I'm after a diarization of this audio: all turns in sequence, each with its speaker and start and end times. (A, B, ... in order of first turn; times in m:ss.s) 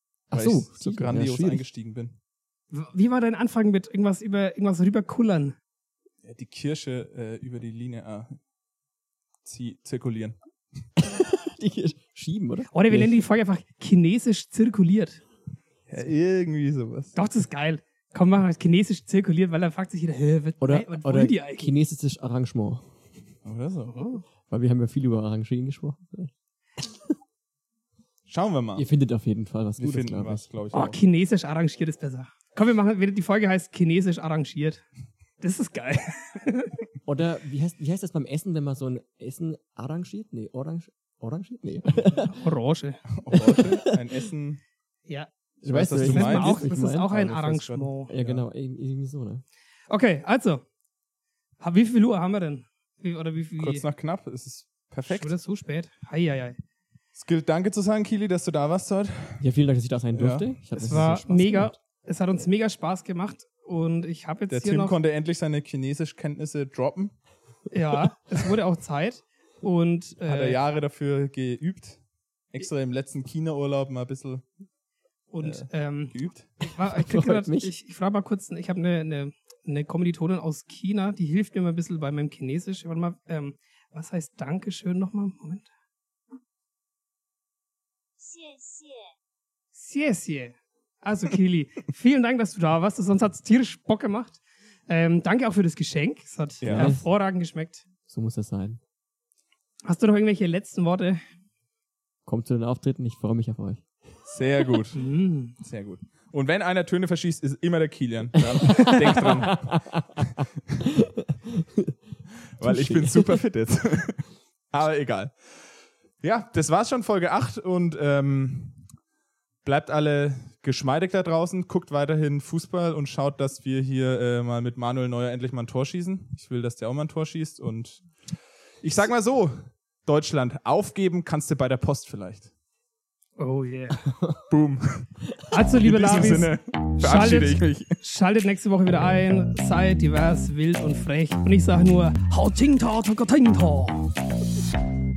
0:00.3-0:01.6 A
0:00.3-0:02.1 B
0:02.7-0:05.6 C
0:06.2-0:08.4 B
0:09.4-0:10.4 B
0:11.0-0:13.2 A
0:12.7-0:15.2 C
0:15.9-0:17.2 B
0:17.1-0:21.7 C
0:20.6-0:22.9 A
0:23.4-0:24.0 B
0:23.9-0:24.2 C
0:24.5-0:27.1 A
0:28.3-0:28.8 B
0:28.7-0:30.5 A
0:29.8-0:31.0 B
0:30.7-0:34.8 C
0:35.4-0:36.8 C
0:37.0-0:42.4 A
0:42.2-0:43.0 C
0:43.1-0:44.6 B
0:43.3-0:44.1 A
0:45.6-0:47.1 A
0:45.6-0:48.4 B
0:46.0-0:48.1 C
0:48.1-0:49.4 A
0:49.9-0:50.6 C
0:51.6-0:53.8 C
0:53.6-0:55.3 B
0:55.1-0:56.6 C
0:57.1-0:59.4 B
0:59.4-1:01.7 A
1:00.1-1:01.1 B
1:00.8-1:05.0 C
1:04.5-1:07.1 B
1:07.7-1:10.6 C
1:10.2-1:12.0 B
1:12.5-1:14.4 B
1:15.3-1:25.7 C
1:15.4-1:16.5 B
1:16.9-1:17.7 A
1:29.7-1:37.8 C
1:36.6-1:37.0 B
1:36.7-1:37.1 A
1:38.1-1:38.8 A
1:39.8-1:41.2 C
1:42.2-1:43.8 A
1:44.2-1:45.0 B
1:44.9-1:45.5 C
1:45.6-1:49.8 B
1:48.6-1:50.2 A
1:50.9-1:51.9 A
1:52.6-1:55.3 B
1:52.6-1:53.4 A
1:56.2-1:58.8 B
1:59.6-2:08.0 B
2:08.8-2:09.5 B
2:10.0-2:12.5 B
2:13.4-2:14.0 C
2:14.5-2:15.1 B
2:15.5-2:24.1 C
2:15.8-2:18.0 B